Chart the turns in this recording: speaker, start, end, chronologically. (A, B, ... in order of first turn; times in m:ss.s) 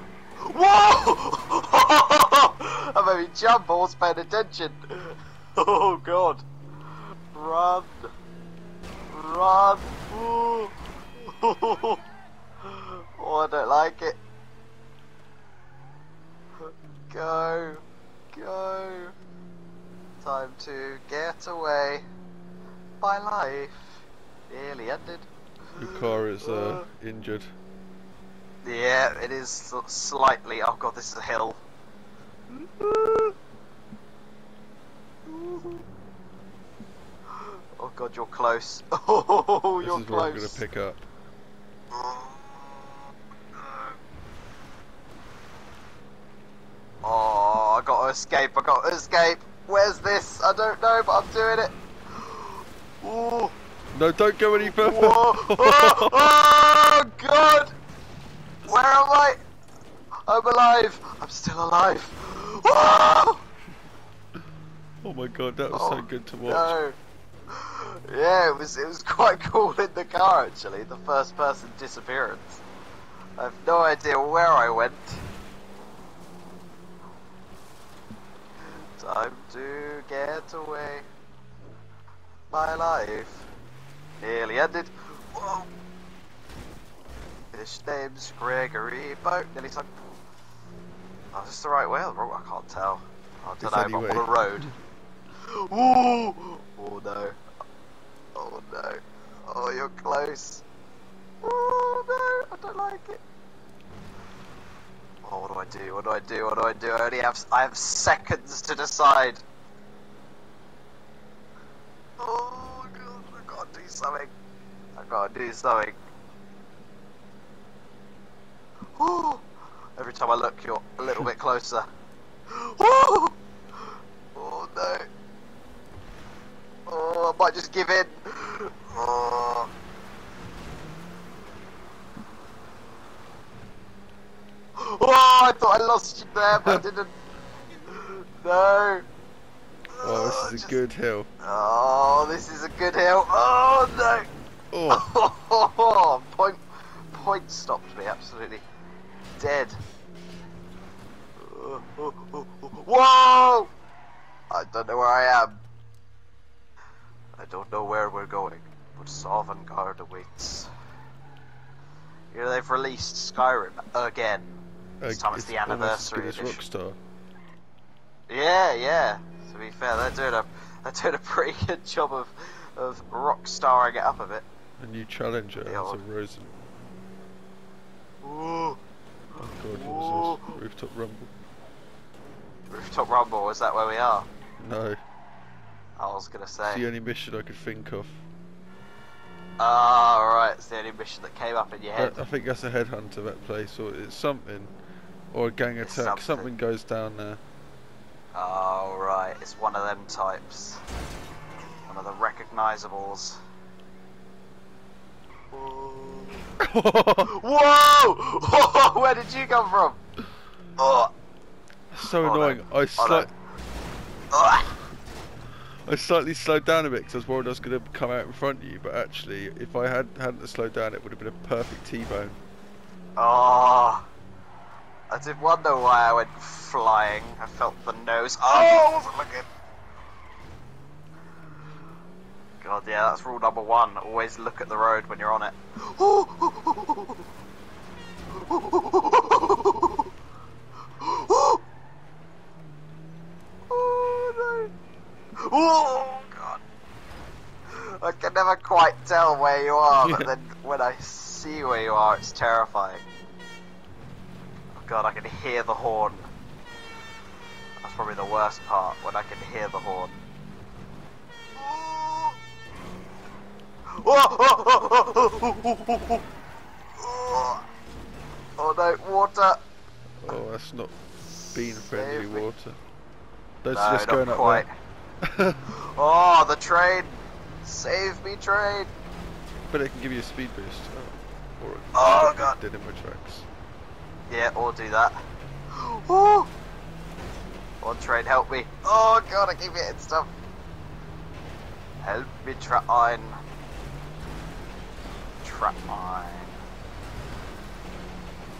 0:00.4-0:06.4 A
0:07.3-0:08.1 A
0:09.1-0:12.0 A
0:12.6-0:14.2 A
0:16.6-0:19.1 A
0:20.2-0:22.0 A
0:23.0-0:26.8 A
0:25.8-0:27.5 B
0:28.6-0:31.6 A
0:32.5-0:33.3 A
0:35.3-0:35.8 A
0:37.3-0:40.6 A
0:39.8-0:41.0 B
0:41.9-0:42.8 A
0:43.5-0:43.9 A
0:47.0-0:53.5 A
0:53.9-0:56.3 B
0:54.5-0:57.7 A
0:58.6-0:59.4 A
1:00.3-1:03.4 A
1:05.0-1:06.8 B
1:05.7-1:07.0 A
1:07.5-1:12.6 A
1:13.4-1:15.2 A
1:18.6-1:21.0 A
1:22.5-1:23.5 A
1:24.2-1:25.7 A
1:27.5-1:29.9 A
1:31.3-1:34.7 A
1:33.6-1:34.7 B
1:35.4-1:37.4 A
1:38.3-1:40.6 A
1:41.4-1:43.2 A
1:45.2-1:49.4 A
1:52.2-1:54.3 A
1:55.0-1:56.0 A
1:59.0-1:59.4 A
2:00.0-2:01.9 A
2:02.5-2:03.4 A
2:04.3-2:05.1 A
2:06.9-2:09.7 A
2:14.8-2:17.1 A
2:16.5-2:16.8 B
2:17.9-2:19.1 A
2:19.9-2:20.8 A
2:20.0-2:21.3 B
2:21.4-2:24.3 A
2:24.7-2:25.0 B
2:24.9-2:28.6 A
2:29.4-2:29.8 A
2:31.4-2:33.7 A
2:34.5-2:35.6 A
2:37.4-2:40.7 A
2:42.3-2:46.6 A
2:45.0-2:47.0 B
2:48.3-2:54.4 A
2:54.8-2:56.5 B
2:55.6-2:56.0 A
2:58.2-2:58.8 A
2:59.4-3:01.3 B
2:59.4-3:00.6 A
3:02.7-3:04.3 A
3:04.6-3:05.0 B
3:06.0-3:06.8 A
3:06.6-3:08.2 B
3:09.6-3:12.2 A
3:12.0-3:14.7 B
3:15.3-3:17.4 B
3:15.8-3:16.5 A
3:18.3-3:20.8 A
3:21.9-3:23.4 A
3:25.5-3:26.5 A
3:26.6-3:27.3 B
3:27.2-3:30.0 A
3:30.8-3:31.1 A
3:31.9-3:33.3 B
3:32.2-3:33.3 A
3:34.3-3:34.8 A
3:35.8-3:42.4 B
3:43.2-3:44.1 A
3:45.1-3:49.5 A
3:52.6-3:57.2 A
3:58.3-4:00.1 A
4:01.0-4:01.6 A
4:03.7-4:04.7 A
4:05.4-4:06.6 A
4:07.7-4:13.0 A
4:10.0-4:10.3 B
4:14.7-4:16.3 A
4:17.8-4:20.2 A
4:21.6-4:22.4 A
4:23.9-4:26.2 A
4:27.0-4:27.6 A
4:28.6-4:29.6 A
4:30.2-4:30.9 B
4:31.3-4:32.5 A
4:31.5-4:32.8 B
4:33.6-4:34.6 B
4:33.7-4:34.7 A
4:35.2-4:35.6 B
4:35.7-4:38.9 A
4:39.7-4:43.4 B
4:41.9-4:42.6 A
4:44.3-4:45.2 A
4:45.7-4:46.5 A
4:47.8-4:50.3 A
4:52.0-4:53.4 A
4:55.4-4:56.6 A